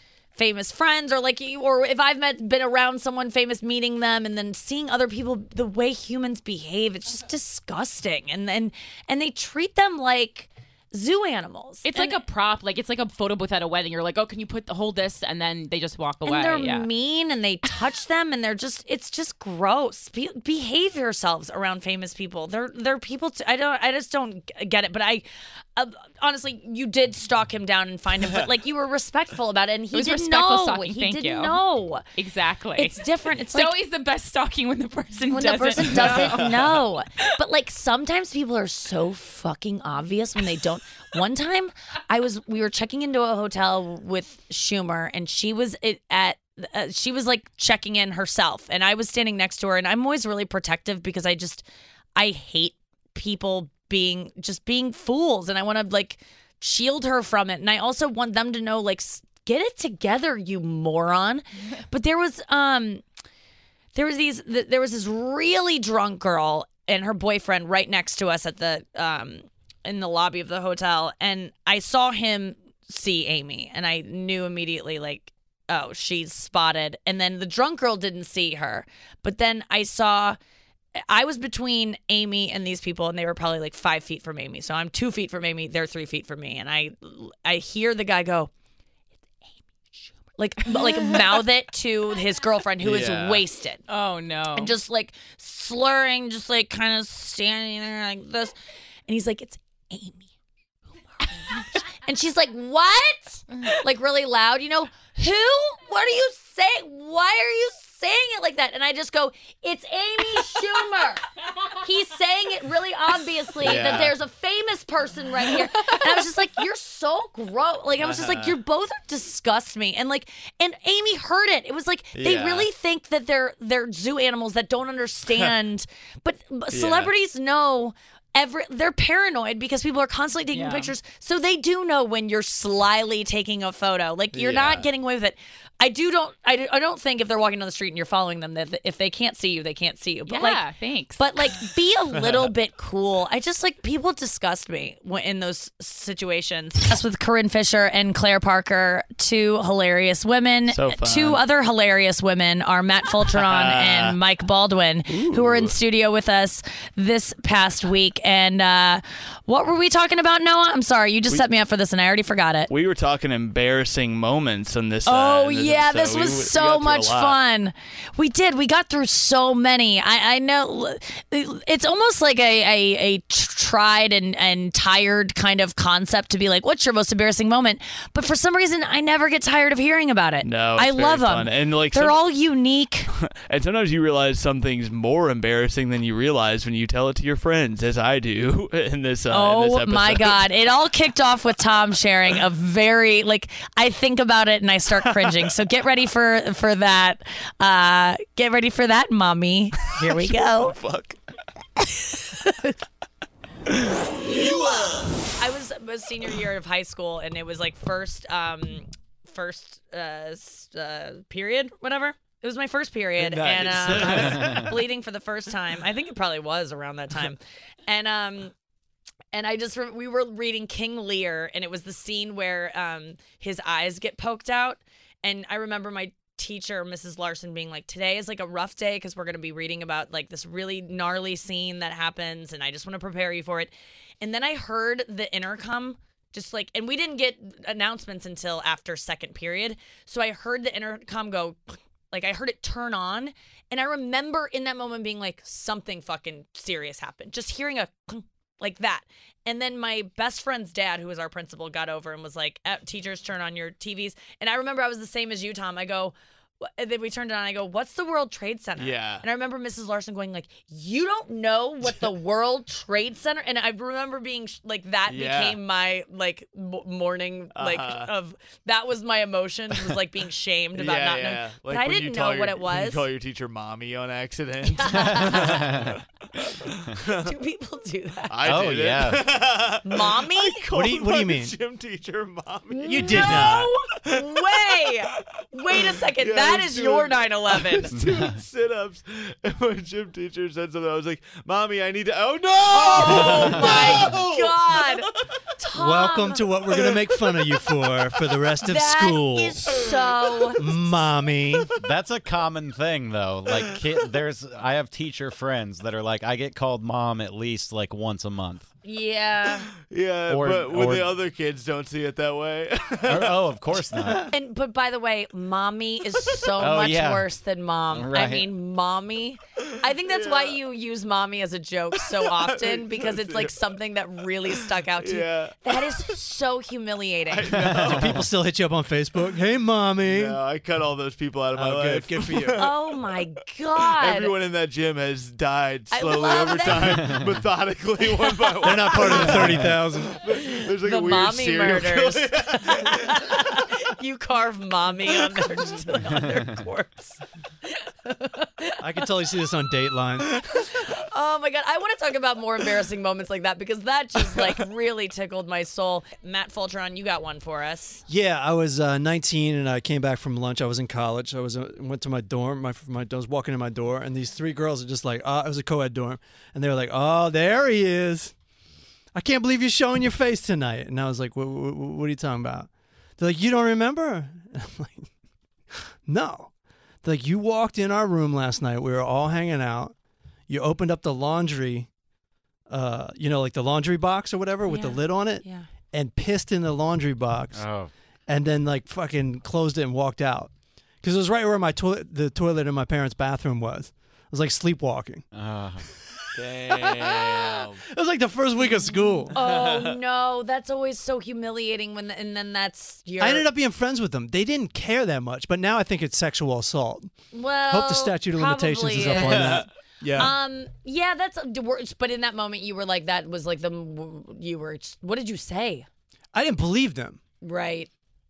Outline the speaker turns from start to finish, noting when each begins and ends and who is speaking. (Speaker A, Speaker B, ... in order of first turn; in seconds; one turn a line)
Speaker A: 0.3-12.2
Speaker B: 11.8-16.9
Speaker A: 16.3-25.2
Speaker A: 25.8-32.1
Speaker B: 29.9-31.6
Speaker B: 32.2-36.4
Speaker A: 32.8-33.7
Speaker A: 35.3-51.6
Speaker C: 35.9-36.8
Speaker A: 52.2-63.0
Speaker A: 63.9-80.4
Speaker A: 81.1-88.5
Speaker A: 90.4-93.8
Speaker C: 92.8-93.4
Speaker B: 93.9-94.7
Speaker A: 94.5-98.5
Speaker A: 99.1-100.2
Speaker A: 101.2-111.2
Speaker A: 111.8-140.6
Speaker C: 113.6-114.1
Speaker C: 118.0-118.6
Speaker C: 122.2-122.7
Speaker C: 126.7-127.1
Speaker B: 130.5-130.9
Speaker C: 134.3-134.9
Speaker B: 140.3-141.2
Speaker A: 141.2-162.7
Speaker C: 142.2-142.5
Speaker C: 150.7-151.4
Speaker C: 153.3-154.2
Speaker C: 155.1-155.8
Speaker C: 162.7-167.4
Speaker A: 165.1-183.1
Speaker C: 180.4-182.2
Speaker C: 183.1-190.5
Speaker A: 189.3-200.8
Speaker C: 195.1-195.4
Speaker C: 199.9-201.2
Speaker C: 203.7-204.9
Speaker A: 205.4-218.5
Speaker C: 213.2-214.8
Speaker A: 219.3-273.1
Speaker C: 258.8-259.2
Speaker C: 265.1-265.6
Speaker C: 267.6-268.1
Speaker C: 270.8-277.3
Speaker A: 274.8-275.7
Speaker D: 275.2-275.9
Speaker A: 277.2-278.8
Speaker C: 278.3-295.2
Speaker D: 278.4-279.3
Speaker A: 279.9-280.7
Speaker E: 280.7-281.6
Speaker A: 282.8-287.9
Speaker E: 282.9-283.8
Speaker A: 292.7-295.1
Speaker A: 295.6-296.5
Speaker E: 295.8-299.6
Speaker A: 298.6-300.7
Speaker C: 299.7-300.5
Speaker E: 300.6-301.7
Speaker D: 301.8-308.7
Speaker A: 308.8-309.7
Speaker C: 309.8-313.4
Speaker D: 310.3-311.1
Speaker D: 313.0-314.3
Speaker A: 314.3-327.6
Speaker D: 316.6-317.3
Speaker D: 317.9-318.5
Speaker C: 319.6-320.6
Speaker C: 322.0-323.6
Speaker C: 324.6-326.0
Speaker C: 327.3-328.3
Speaker E: 327.7-330.4
Speaker C: 330.0-332.7
Speaker E: 331.6-332.7
Speaker A: 332.6-334.3
Speaker C: 333.8-343.2
Speaker A: 335.9-337.2
Speaker D: 336.8-337.2
Speaker E: 338.6-340.2
Speaker A: 339.0-339.4
Speaker A: 340.6-347.2
Speaker A: 348.1-348.7
Speaker E: 348.8-350.3
Speaker A: 350.8-358.0
Speaker E: 358.1-368.4
Speaker E: 369.1-375.1
Speaker E: 376.1-381.9
Speaker E: 382.7-395.3
Speaker A: 384.6-385.7
Speaker D: 387.5-387.9
Speaker D: 395.3-395.9
Speaker C: 396.4-397.8
Speaker E: 397.8-399.4
Speaker A: 398.8-403.5
Speaker C: 399.4-400.0
Speaker E: 403.2-409.7
Speaker A: 407.3-415.9
Speaker C: 409.0-410.4
Speaker E: 416.3-417.2
Speaker A: 417.4-417.9